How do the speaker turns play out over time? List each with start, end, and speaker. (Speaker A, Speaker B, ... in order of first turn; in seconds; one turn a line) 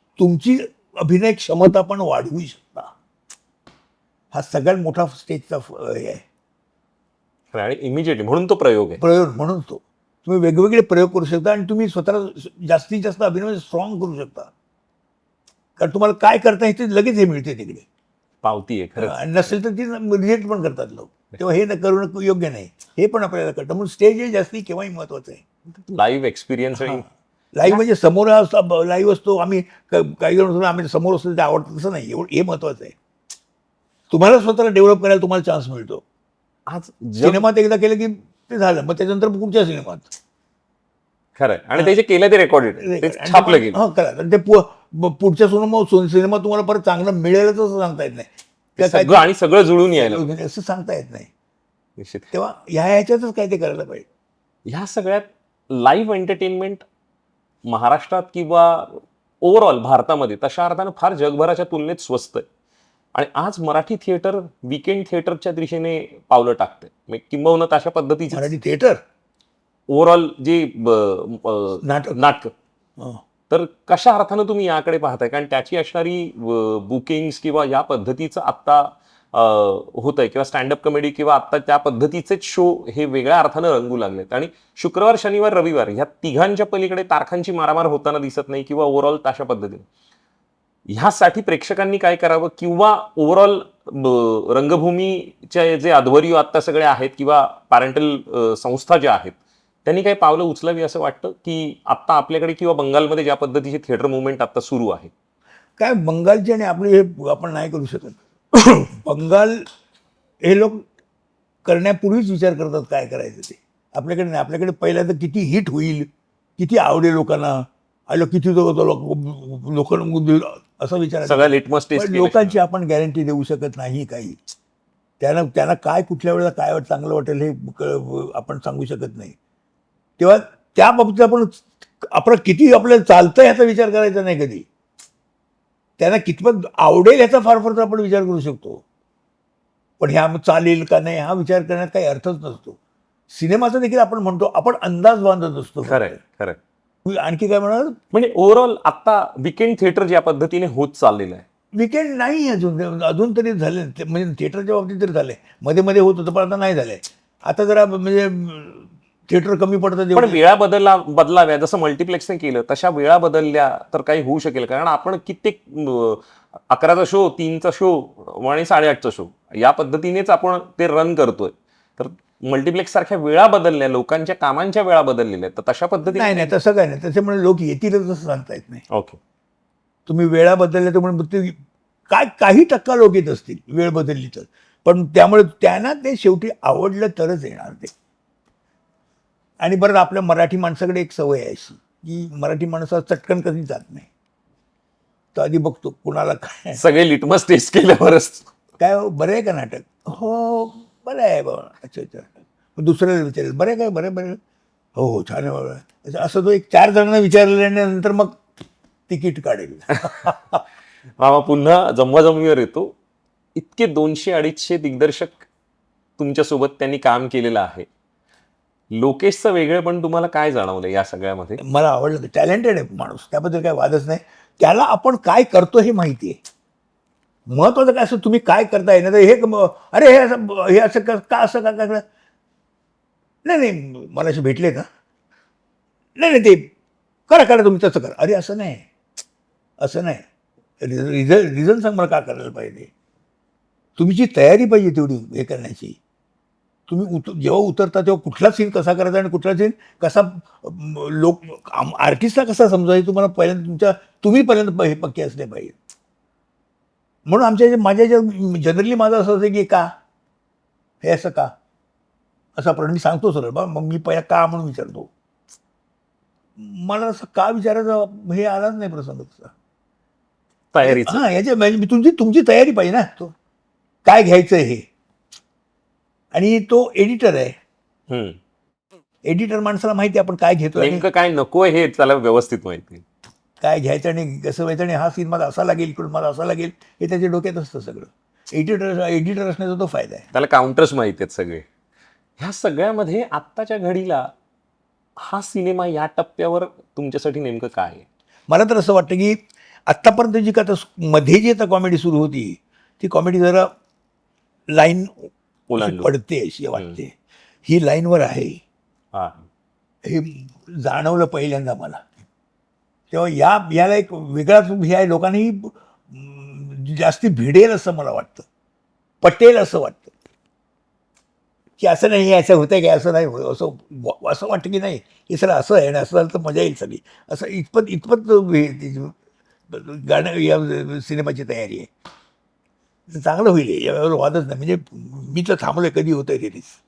Speaker A: 0.2-2.9
Speaker A: 4.3-6.2
Speaker B: 7.5-9.0
Speaker A: 9.0-14.5
Speaker A: 15.8-17.9
Speaker B: 18.4-19.2
Speaker A: 19.0-25.4
Speaker B: 25.9-27.0
Speaker A: 26.8-32.9
Speaker A: 34.1-36.0
Speaker B: 36.7-37.4
Speaker A: 37.2-40.1
Speaker B: 41.4-43.8
Speaker A: 42.8-49.2
Speaker B: 48.8-50.2
Speaker A: 49.9-51.3
Speaker B: 52.0-52.3
Speaker A: 52.3-54.0
Speaker B: 54.6-56.9
Speaker B: 57.6-62.5
Speaker B: 63.1-68.5
Speaker A: 68.3-69.0
Speaker B: 69.9-72.5
Speaker A: 71.8-72.2
Speaker B: 73.5-89.8
Speaker B: 90.9-105.1
Speaker A: 105.8-109.7
Speaker A: 110.4-110.9
Speaker A: 111.6-124.4
Speaker B: 121.2-122.6
Speaker A: 125.2-129.3
Speaker A: 130.2-134.7
Speaker A: 136.0-138.8
Speaker A: 140.0-142.8
Speaker A: 143.3-146.2
Speaker B: 145.8-146.6
Speaker A: 147.0-148.0
Speaker B: 148.1-151.4
Speaker A: 151.7-160.4
Speaker B: 160.1-176.6
Speaker A: 176.1-178.8
Speaker B: 178.9-179.2
Speaker A: 180.1-181.6
Speaker A: 182.1-187.9
Speaker A: 189.6-194.1
Speaker A: 195.3-196.8
Speaker B: 196.8-198.5
Speaker A: 198.8-204.4
Speaker A: 204.9-208.4
Speaker A: 209.1-210.6
Speaker B: 211.2-212.9
Speaker B: 213.5-215.5
Speaker B: 216.2-217.9
Speaker B: 218.9-221.6
Speaker A: 221.6-226.4
Speaker A: 227.5-232.0
Speaker A: 233.4-234.9
Speaker A: 236.2-236.7
Speaker A: 237.3-238.8
Speaker A: 239.8-240.2
Speaker A: 240.8-242.9
Speaker A: 244.0-246.0
Speaker A: 246.9-255.7
Speaker A: 257.3-259.9
Speaker A: 261.0-261.5
Speaker A: 262.6-265.1
Speaker A: 266.6-269.5
Speaker B: 270.7-271.2
Speaker A: 270.8-273.3
Speaker A: 274.0-274.9
Speaker A: 276.3-277.6
Speaker B: 278.1-278.4
Speaker A: 279.2-281.0
Speaker B: 280.8-283.0
Speaker A: 283.6-290.2
Speaker B: 290.3-291.6
Speaker B: 292.4-294.3
Speaker B: 295.2-298.1
Speaker A: 298.5-303.7
Speaker A: 304.7-307.1
Speaker B: 305.7-306.1
Speaker A: 307.6-308.6
Speaker B: 309.1-309.4
Speaker A: 310.0-312.0
Speaker A: 313.1-318.5
Speaker A: 319.2-320.1
Speaker A: 321.8-329.1
Speaker A: 329.7-331.9
Speaker A: 333.1-336.8